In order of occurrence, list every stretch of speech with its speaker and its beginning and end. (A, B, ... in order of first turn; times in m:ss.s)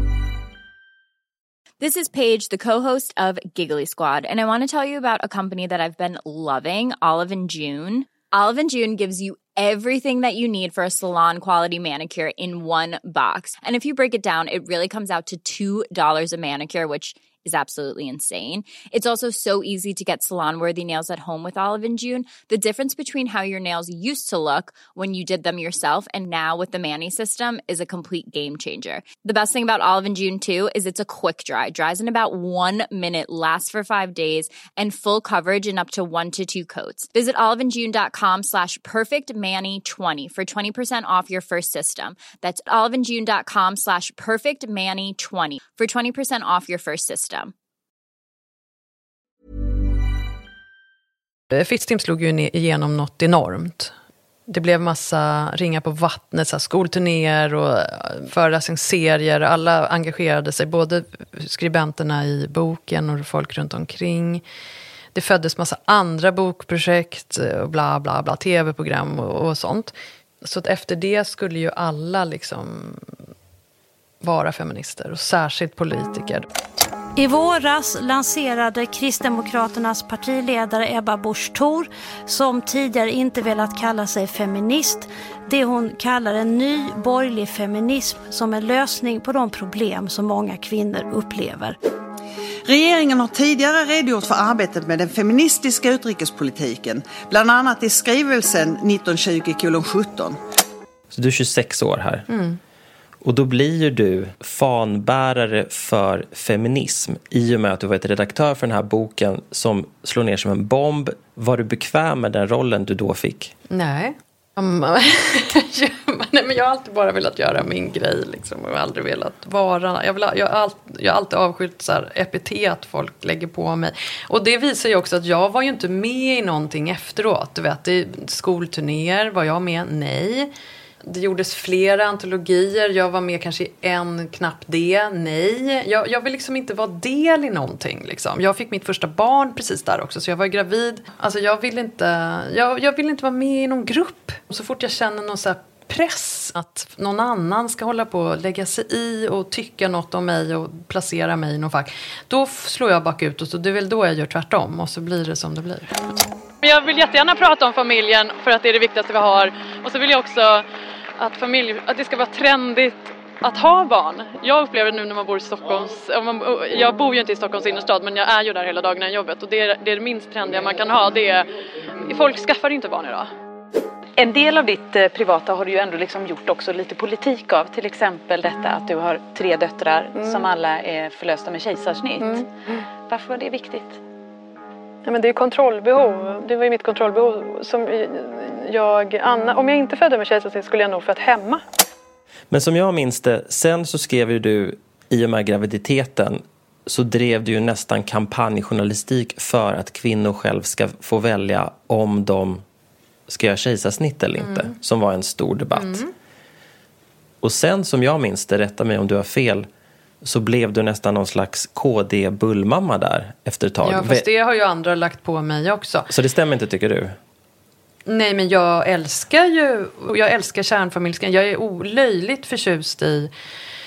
0:01.8-0:47.5 A
0:51.5-0:53.9 B
0:54.5-1:04.4 B
1:05.1-1:13.1 B
1:14.2-1:16.5 B
1:17.2-1:31.8 C
1:32.7-1:40.4 D
1:41.1-1:42.3 E
1:42.3-1:42.6 B
1:43.2-1:53.6 E
1:53.7-2:10.5 B
2:11.0-2:36.1 B
2:36.6-2:40.6 B
2:41.2-2:51.5 B
2:52.0-2:53.3 B
2:54.2-3:02.5 F
3:00.2-3:00.4 B
3:02.2-3:02.5 B
3:03.1-3:04.0 F
3:05.0-3:11.6 B
3:12.5-3:22.6 E
3:23.3-3:26.0 E
3:24.4-3:24.7 B
3:25.8-3:26.1 B
3:27.4-3:29.7 E
3:30.2-3:34.2 E
3:33.8-3:36.1 B
3:36.1-3:37.2 E
3:38.1-3:43.3 B